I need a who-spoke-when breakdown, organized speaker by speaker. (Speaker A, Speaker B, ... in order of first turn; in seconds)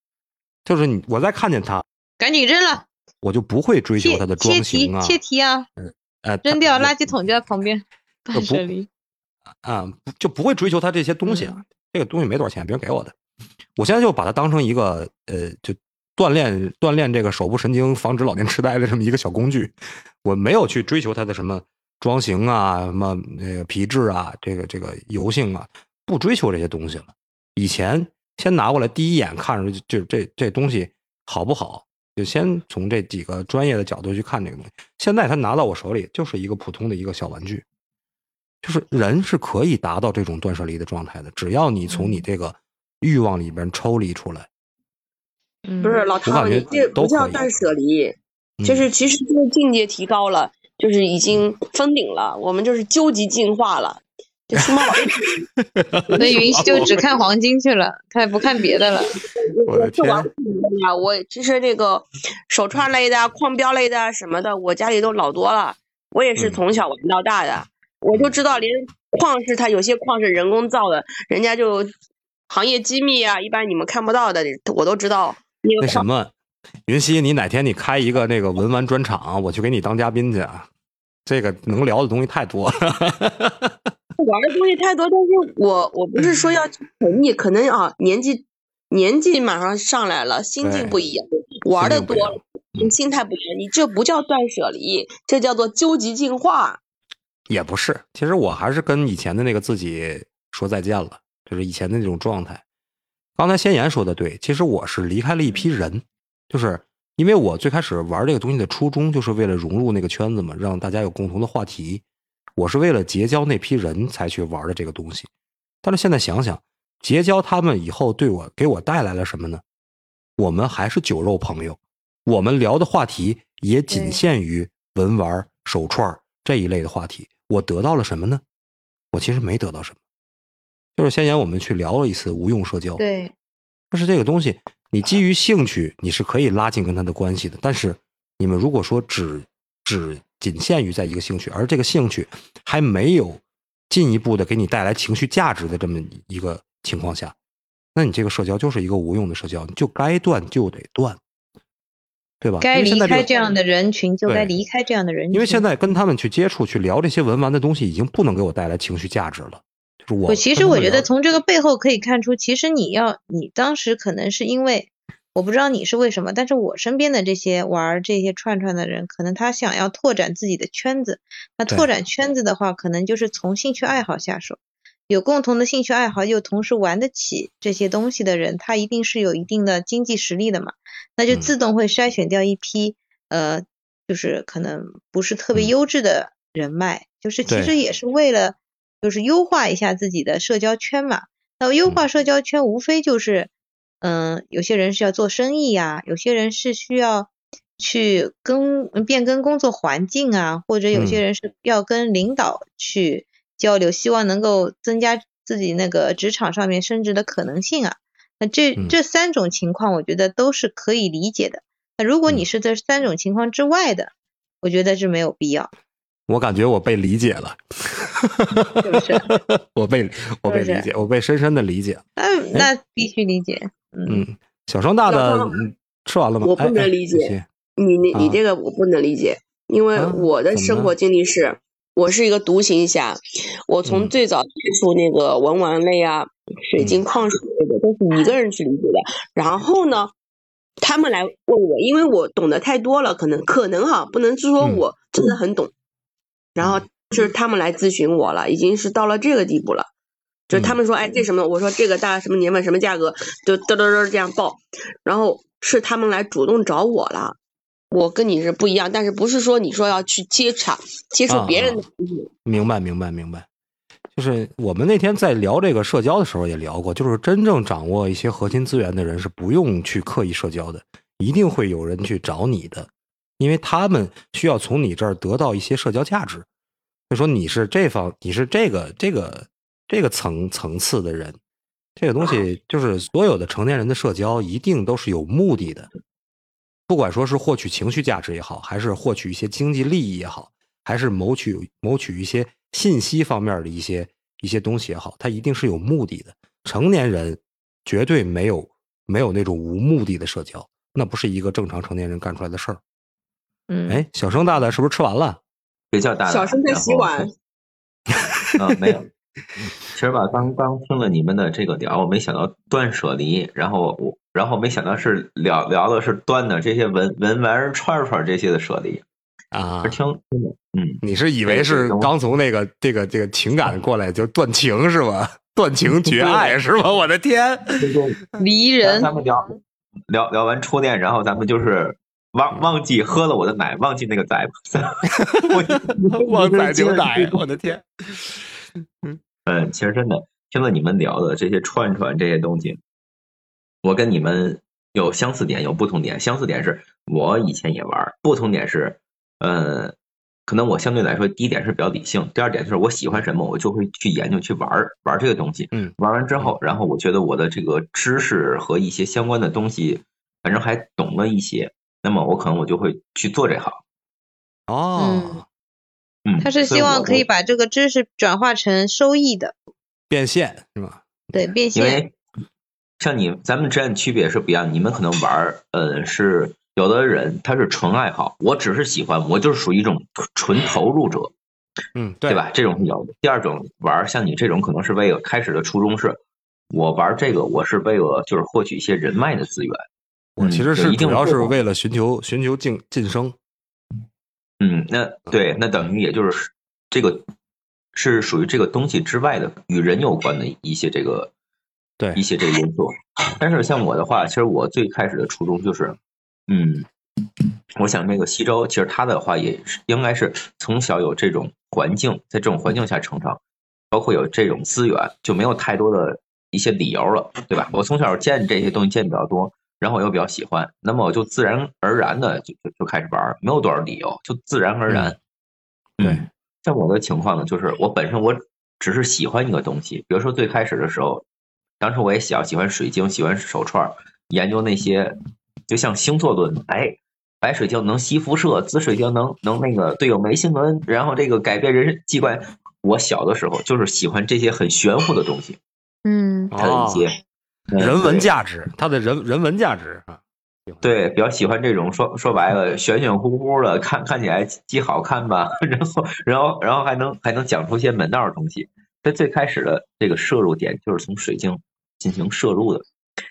Speaker A: 0.7-1.8, 3.2-5.2, 5.8-7.2, 8.3-8.7, 9.6-13.1, 13.8-37.6, 38.6-44.5, 46.3-47.5, 48.6-48.9, 54.6-55.0, 55.6-57.0, 59.7-60.3, 75.8-76.3, 76.9-80.7, 81.2-83.7, 90.6-91.0, 91.7-92.9, 97.5-102.6, 103.4-112.0, 112.6-115.3, 115.8-119.6, 120.4-128.4, 129.1-130.0, 131.0-133.0, 133.9-147.3, 147.9-151.2, 152.4-153.3, 155.3-161.1, 187.5-187.7, 200.9-201.2, 216.3-222.7, 224.1-227.4, 228.1-228.4, 229.9-230.9, 233.8-234.1, 250.5-250.8, 261.3-261.8, 262.4-263.4, 264.1-276.4, 277.1-281.4, 282.0-285.9, 286.9-302.8, 303.9-305.4, 319.5-320.0, 321.0-327.8, 335.3-338.4, 355.7-356.6, 364.7-365.4, 370.1-371.4, 381.9-382.4, 390.4-393.3, 402.0-402.2, 424.9-425.1, 446.5-447.1, 447.8-450.9
Speaker B: 2.2-2.9, 4.0-5.7, 6.4-8.9, 11.2-11.6, 41.9-42.2, 45.6-46.1, 56.1-59.1, 123.9-124.2, 133.0-133.3, 152.6-155.6, 160.3-174.6, 175.1-193.5, 194.0-214.1, 214.6-215.7, 218.8-219.3, 220.4-220.9, 222.2-224.2, 303.7-304.0, 328.4-329.1, 365.0-365.4, 366.4-369.5, 371.3-372.0, 446.0-446.5
Speaker C: 45.8-55.4, 56.1-56.9, 59.4-71.9, 72.5-76.0, 84.2-96.8, 225.1-225.6, 226.4-240.1, 240.8-245.7, 246.6-249.9, 250.5-257.4, 257.9-262.3, 306.3-307.3
Speaker D: 305.9-307.3, 308.6-309.1, 309.9-319.0, 319.8-322.1, 326.0-326.6, 327.8-328.2, 328.8-329.6, 330.1-337.4, 339.4-342.8, 343.8-349.9, 350.5-363.8, 366.2-367.3, 371.7-372.1, 373.0-381.3, 382.2-386.2, 386.7-389.8, 390.4-391.5, 394.6-397.2, 397.9-401.3, 402.1-406.0, 406.5-406.9, 407.8-413.4, 413.9-425.2, 426.0-431.2, 431.8-435.2, 435.7-445.6, 446.5-447.2, 447.7-448.3, 450.8-462.8